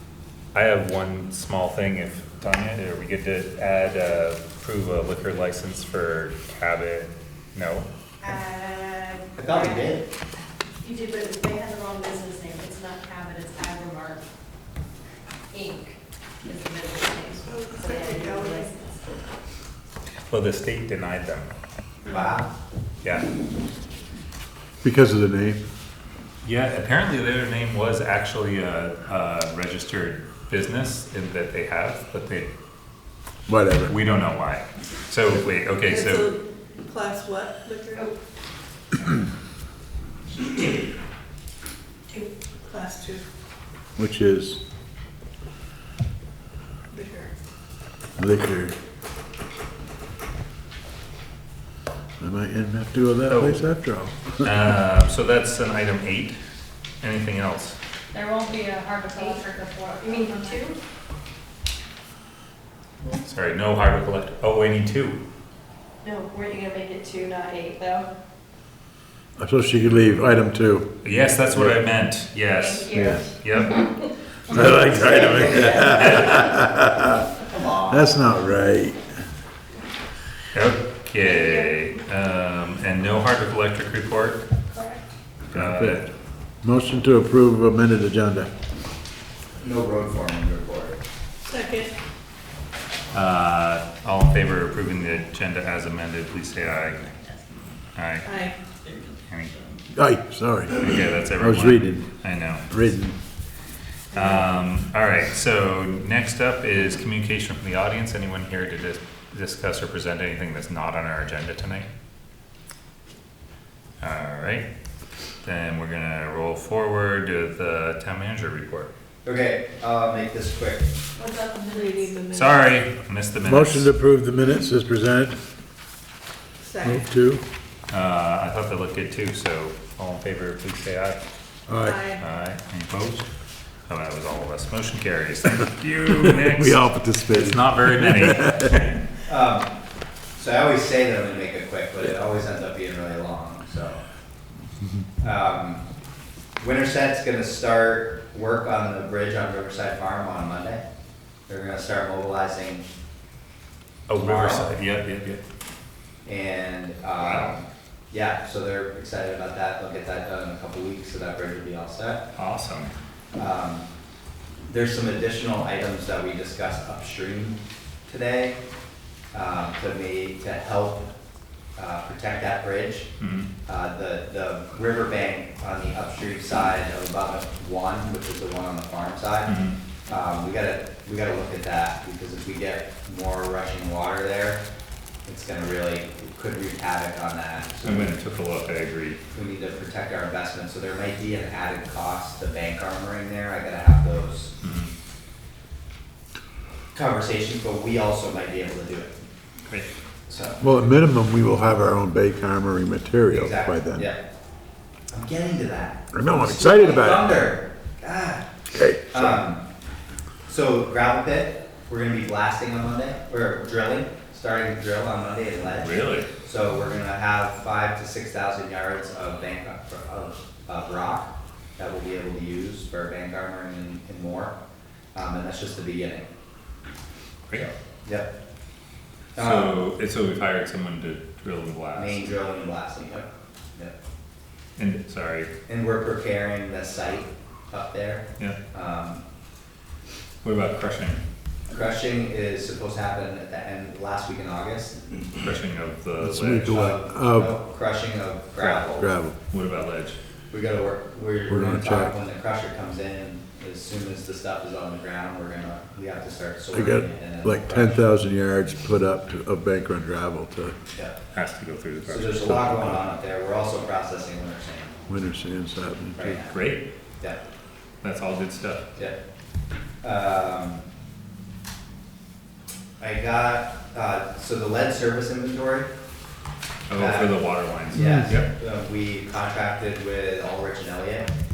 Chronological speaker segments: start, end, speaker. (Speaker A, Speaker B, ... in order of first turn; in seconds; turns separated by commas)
Speaker A: 0.5-7.9, Speaker B: 8.2-9.9, Speaker C: 9.4-10.1, Speaker B: 10.8-14.2, Speaker B: 15.5-19.0, Speaker D: 17.5-18.5, Speaker A: 20.3-21.5, Speaker C: 22.1-22.5, Speaker E: 24.8-25.6, Speaker A: 26.4-32.5, Speaker E: 33.5-34.0, Speaker A: 33.9-36.4, Speaker D: 36.9-38.0, Speaker D: 42.9-43.2, Speaker E: 44.0-44.6, Speaker D: 47.0-47.3, Speaker E: 48.2-48.8, Speaker E: 52.2-54.2, Speaker A: 53.3-53.7, Speaker A: 54.4-56.4, Speaker A: 57.0-57.8, Speaker F: 58.1-60.7, Speaker B: 58.5-60.8, Speaker A: 63.2-65.2, Speaker B: 66.0-68.1, Speaker E: 69.4-70.9, Speaker A: 71.0-73.9, Speaker E: 71.5-71.8, Speaker B: 72.5-73.3, Speaker E: 72.9-73.2, Speaker E: 74.5-77.2, Speaker B: 74.6-76.4, Speaker C: 74.9-76.4, Speaker A: 75.9-76.5, Speaker C: 77.4-78.1, Speaker E: 77.9-79.1, Speaker A: 80.5-84.5, Speaker A: 85.5-86.1, Speaker E: 85.5-86.1, Speaker E: 86.6-88.5, Speaker C: 89.6-91.0, Speaker A: 93.1-97.0, Speaker A: 98.0-98.4, Speaker A: 99.3-99.6, Speaker E: 99.9-102.1, Speaker A: 100.8-102.7, Speaker E: 102.7-103.2, Speaker A: 104.1-111.9, Speaker A: 114.0-114.7, Speaker A: 115.4-118.9, Speaker C: 119.2-120.9, Speaker B: 121.2-122.2, Speaker D: 121.7-122.0, Speaker A: 122.3-123.9, Speaker E: 123.4-125.4, Speaker E: 126.8-127.4, Speaker A: 127.9-131.2, Speaker E: 131.7-132.2, Speaker A: 132.2-133.3, Speaker A: 133.9-139.0, Speaker E: 136.1-138.9, Speaker C: 139.3-139.7, Speaker C: 140.4-144.0, Speaker C: 145.2-145.8, Speaker C: 146.6-150.8, Speaker C: 151.5-152.8, Speaker A: 154.1-155.4, Speaker C: 154.2-154.7, Speaker C: 156.2-162.2, Speaker A: 157.2-157.6, Speaker A: 162.3-162.9, Speaker C: 163.3-163.9, Speaker C: 164.7-168.6, Speaker C: 169.3-171.1, Speaker C: 171.8-173.1, Speaker A: 173.2-173.5, Speaker C: 173.7-184.6, Speaker A: 179.5-179.8, Speaker C: 185.3-188.1, Speaker A: 187.8-189.2, Speaker C: 189.3-194.5, Speaker A: 194.6-194.9, Speaker C: 196.9-199.2, Speaker C: 200.3-200.6, Speaker E: 200.6-204.1, Speaker C: 203.3-204.2, Speaker C: 205.1-208.5, Speaker E: 206.1-207.5, Speaker E: 208.7-209.4, Speaker C: 209.1-209.7, Speaker C: 210.5-224.6, Speaker A: 215.8-216.3, Speaker C: 225.2-226.3, Speaker C: 227.5-228.3, Speaker C: 229.4-229.8, Speaker A: 229.4-232.4, Speaker C: 231.9-233.9, Speaker A: 234.8-235.5, Speaker C: 235.7-239.2, Speaker A: 240.4-241.2, Speaker C: 241.7-245.0, Speaker A: 245.4-246.8, Speaker E: 246.2-247.6, Speaker C: 246.7-249.1, Speaker A: 248.6-250.2, Speaker E: 249.0-249.3, Speaker C: 250.5-258.0, Speaker E: 251.5-252.2, Speaker E: 256.7-260.8, Speaker A: 261.3-262.8, Speaker C: 262.1-264.9, Speaker E: 265.1-266.4, Speaker C: 266.2-266.6, Speaker A: 266.5-266.9, Speaker A: 268.0-268.9, Speaker C: 270.0-270.8, Speaker C: 273.0-275.9, Speaker A: 276.9-278.5, Speaker C: 276.9-281.3, Speaker E: 277.9-278.3